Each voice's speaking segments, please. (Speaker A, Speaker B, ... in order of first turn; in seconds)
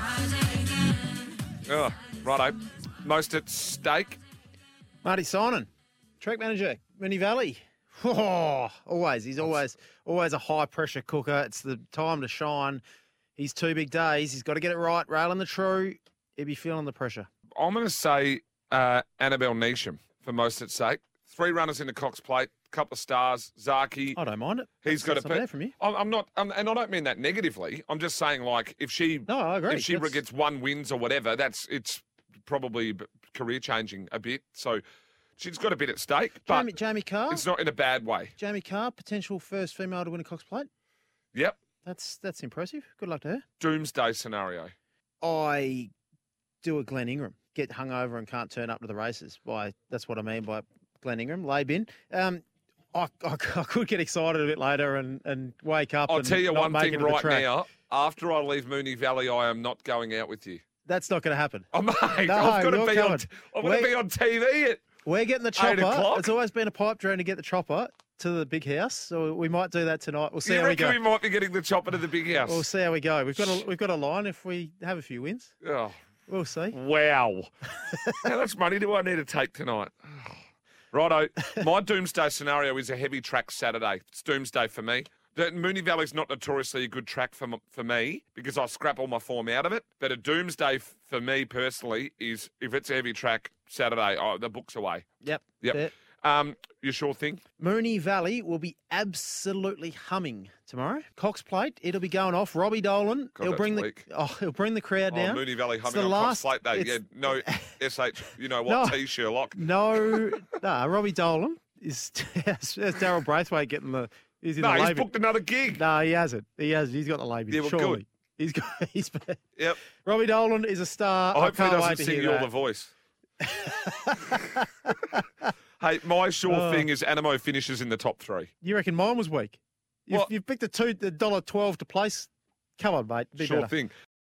Speaker A: 1.6-4.2, 17.6-24.2, 24.8-34.8, 35.4-36.7, 37.3-38.3, 41.3-41.6, 43.6-44.7, 56.1-60.6, 61.7-64.8, 65.5-66.3, 70.4-72.7, 73.4-73.6, 75.6-75.9, 76.7-77.5, 78.2-80.4, 80.9-95.0, 95.6-97.4, 103.3-104.0, 105.1-110.3, 114.6-115.8, 117.5-118.0, 119.5-119.8, 121.3-122.9, 125.8-128.5, 133.4-133.9
Speaker B: 5.0-5.7, 6.2-12.8, 13.4-17.3, 24.1-25.7, 29.3-30.2, 36.5-37.4, 38.4-40.7, 41.8-43.4, 45.2-45.9, 46.6-52.4, 52.9-57.5, 60.9-61.7, 62.3-63.9, 65.0-71.0, 72.4-75.5, 76.3-76.7, 95.2-95.9, 97.6-107.7, 108.7-109.0, 109.5-115.1, 115.7-119.4, 120.0-122.5, 123.4-124.9, 126.5-126.9, 128.6-133.7